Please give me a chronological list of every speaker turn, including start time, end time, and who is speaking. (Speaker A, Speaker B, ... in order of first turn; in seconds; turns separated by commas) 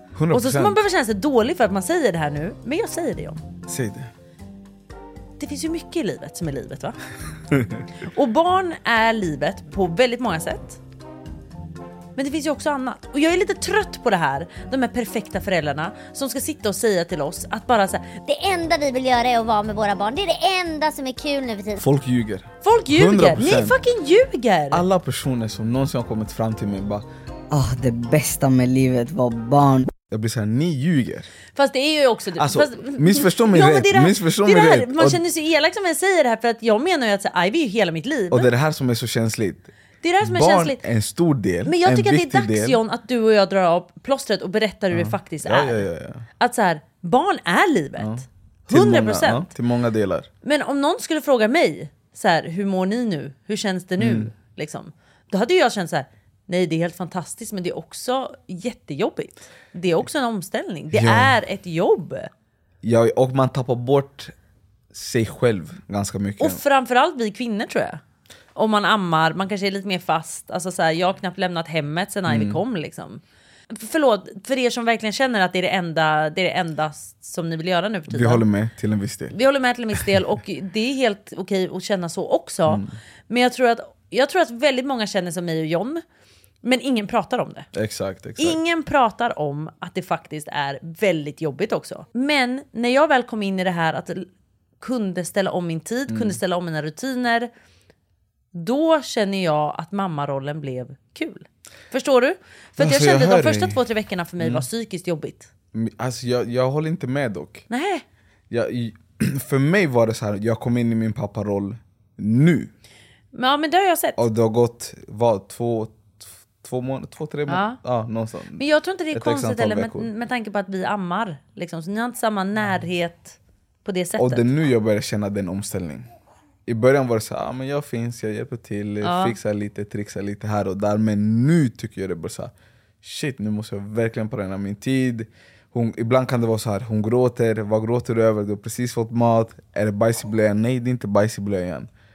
Speaker A: 0.1-0.8, Speaker B: 0.3-3.4, Speaker A: 3.7-4.1, Speaker B: 5.4-7.0, Speaker B: 8.0-10.8, Speaker B: 12.2-18.2, Speaker C: 18.2-21.8, Speaker A: 21.8-23.8, Speaker B: 22.6-24.8, Speaker A: 24.7-27.1, Speaker D: 27.5-29.9, Speaker A: 30.1-31.3, Speaker B: 31.5-38.5, Speaker A: 32.4-35.2, Speaker A: 38.3-39.7, Speaker B: 40.0-40.8, Speaker A: 40.2-42.8, Speaker B: 41.6-45.9, Speaker A: 44.9-46.2, Speaker B: 46.4-49.5, Speaker A: 48.0-50.3, Speaker B: 50.4-62.3, Speaker A: 54.0-54.3, Speaker A: 60.9-61.3, Speaker A: 62.8-64.3, Speaker A: 64.9-66.6, Speaker B: 66.4-68.0, Speaker B: 68.5-78.4, Speaker A: 72.3-72.6, Speaker A: 78.1-79.3, Speaker B: 79.3-86.0, Speaker A: 82.7-82.9, Speaker B: 86.6-87.7, Speaker A: 87.7-88.6, Speaker B: 88.4-94.3, Speaker B: 94.8-97.5, Speaker A: 96.1-96.4, Speaker B: 98.5-105.5, Speaker A: 102.8-103.8, Speaker A: 104.4-104.7, Speaker A: 105.7-107.6, Speaker B: 107.7-108.0, Speaker A: 108.5-112.7, Speaker B: 113.3-114.2, Speaker A: 114.2-120.1, Speaker B: 117.5-117.8, Speaker B: 118.6-124.5, Speaker A: 124.2-126.1, Speaker A: 126.7-141.9, Speaker B: 129.0-129.4